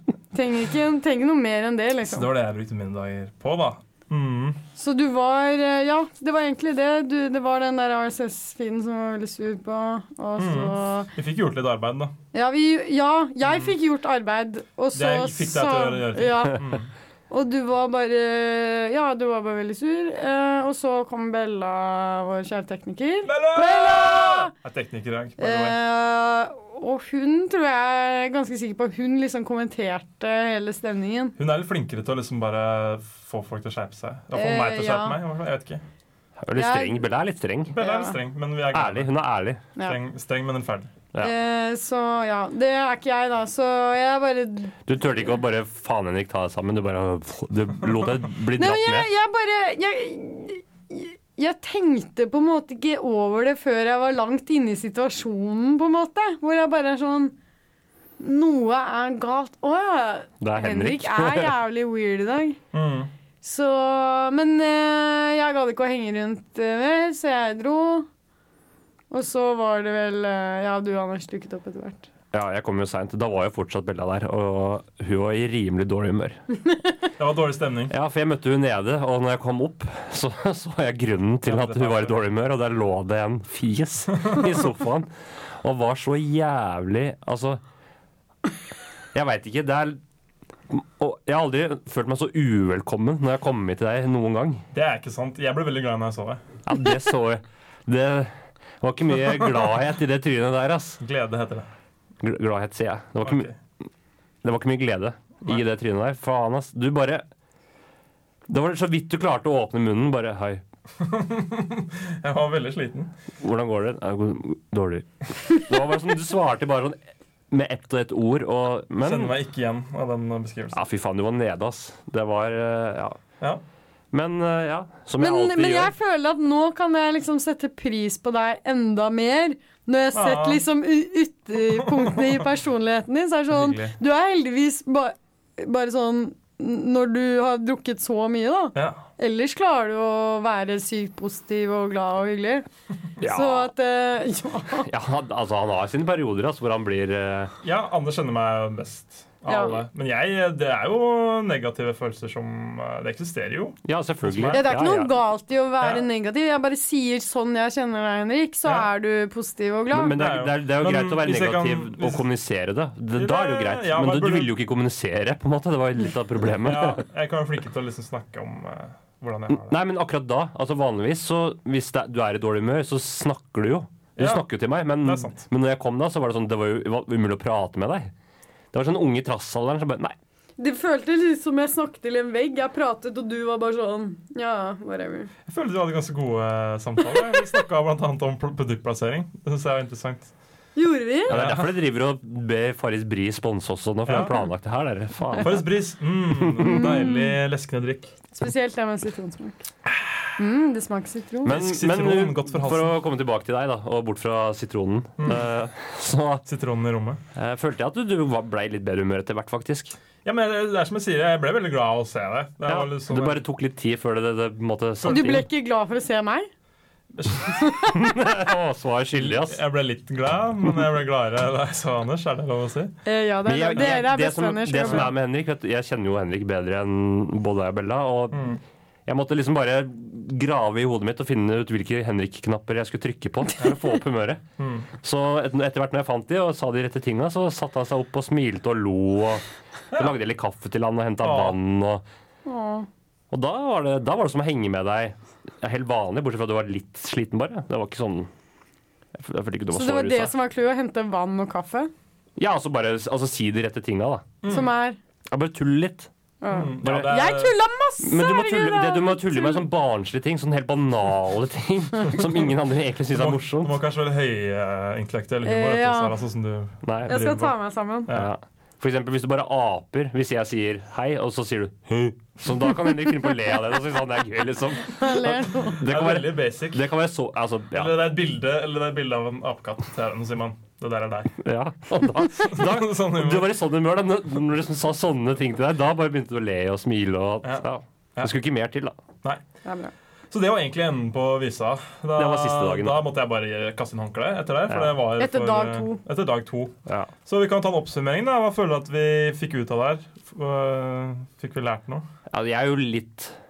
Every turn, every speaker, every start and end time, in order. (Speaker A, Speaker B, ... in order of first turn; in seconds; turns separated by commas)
Speaker A: 0.3-2.3, Speaker B: 2.0-4.6, Speaker A: 4.8-11.1, Speaker B: 10.4-12.1, Speaker A: 12.3-16.6, Speaker B: 13.4-13.7, Speaker B: 14.9-16.9, Speaker A: 17.3-24.5, Speaker B: 23.2-25.8, Speaker A: 25.4-31.4, Speaker B: 31.4-35.8, Speaker A: 34.3-35.2, Speaker C: 36.4-37.7, Speaker A: 36.5-37.0, Speaker B: 37.7-39.1, Speaker A: 37.8-38.2, Speaker C: 38.7-39.6, Speaker B: 39.8-40.9, Speaker A: 41.2-44.8, Speaker C: 44.9-49.1, Speaker A: 48.6-57.3, Speaker A: 58.2-62.6, Speaker C: 60.4-61.5, Speaker B: 62.7-63.1, Speaker A: 63.4-68.1, Speaker A: 69.1-72.1, Speaker C: 72.3-76.4, Speaker B: 77.2-77.9, Speaker C: 77.9-85.1, Speaker B: 81.4-82.2, Speaker C: 85.6-87.6, Speaker C: 89.1-90.0, Speaker C: 90.7-94.6, Speaker B: 94.7-96.4, Speaker C: 96.6-101.0, Speaker B: 101.0-101.7, Speaker C: 102.2-103.5, Speaker B: 103.2-103.5, Speaker C: 104.4-107.2, Speaker C: 108.5-110.6, Speaker B: 111.0-113.1, Speaker C: 113.4-117.0, Speaker C: 117.5-119.3, Speaker B: 119.0-120.8, Speaker C: 120.7-123.2, Speaker C: 124.1-125.9, Speaker A: 125.2-142.6, Speaker B: 130.1-130.6, Speaker B: 131.7-132.4, Speaker B: 133.5-134.0, Speaker B: 138.7-139.0, Speaker C: 143.2-143.7, Speaker A: 143.2-144.9, Speaker C: 144.8-147.5, Speaker B: 147.6-154.7, Speaker A: 149.5-149.8, Speaker C: 153.8-155.2, Speaker A: 154.5-160.2, Speaker C: 159.9-167.0, Speaker B: 160.1-162.2, Speaker B: 163.1-164.5, Speaker B: 166.6-169.8, Speaker C: 169.5-178.1, Speaker B: 174.2-174.5, Speaker B: 175.0-175.5, Speaker C: 178.7-180.1, Speaker A: 180.6-185.3, Speaker B: 185.4-190.3, Speaker A: 190.8-191.3, Speaker B: 191.3-191.8, Speaker C: 191.3-195.7, Speaker B: 194.0-194.3, Speaker B: 195.4-198.1, Speaker C: 196.4-196.9, Speaker A: 196.6-197.3, Speaker A: 198.3-199.7, Speaker A: 200.4-201.5, Speaker C: 201.4-206.4, Speaker B: 201.4-202.9, Speaker B: 205.2-205.5, Speaker B: 206.4-207.2, Speaker C: 207.3-209.9, Speaker B: 210.2-213.4, Speaker C: 212.7-215.5, Speaker A: 215.0-216.5, Speaker B: 217.2-217.7, Speaker A: 217.6-218.0, Speaker C: 217.9-219.6, Speaker B: 219.1-222.9, Speaker A: 223.0-225.1, Speaker C: 223.4-234.4, Speaker B: 223.7-224.0, Speaker B: 224.8-225.1, Speaker B: 228.3-228.6, Speaker B: 234.6-234.9, Speaker C: 235.0-242.0, Speaker B: 241.2-241.6, Speaker A: 242.4-242.9, Speaker C: 243.3-248.3, Speaker C: 249.1-250.3, Speaker A: 249.7-251.9, Speaker C: 252.4-254.3, Speaker B: 254.4-254.7, Speaker A: 254.5-255.0, Speaker C: 255.3-256.1, Speaker A: 256.4-259.6, Speaker B: 256.5-257.5, Speaker C: 256.8-257.2, Speaker C: 258.0-263.8, Speaker B: 263.1-267.5, Speaker A: 265.4-266.1, Speaker C: 266.8-267.4, Speaker A: 267.1-268.1, Speaker C: 268.1-278.0, Speaker A: 274.9-275.8, Speaker B: 275.8-276.8, Speaker B: 277.7-281.3, Speaker C: 281.4-288.9, Speaker B: 282.4-283.5, Speaker B: 287.4-288.3, Speaker A: 289.6-289.9, Speaker B: 290.3-296.7, Speaker C: 292.2-293.0, Speaker C: 294.7-295.0, Speaker A: 295.2-296.0, Speaker C: 296.9-297.1, Speaker B: 297.2-302.1, Speaker C: 302.3-303.4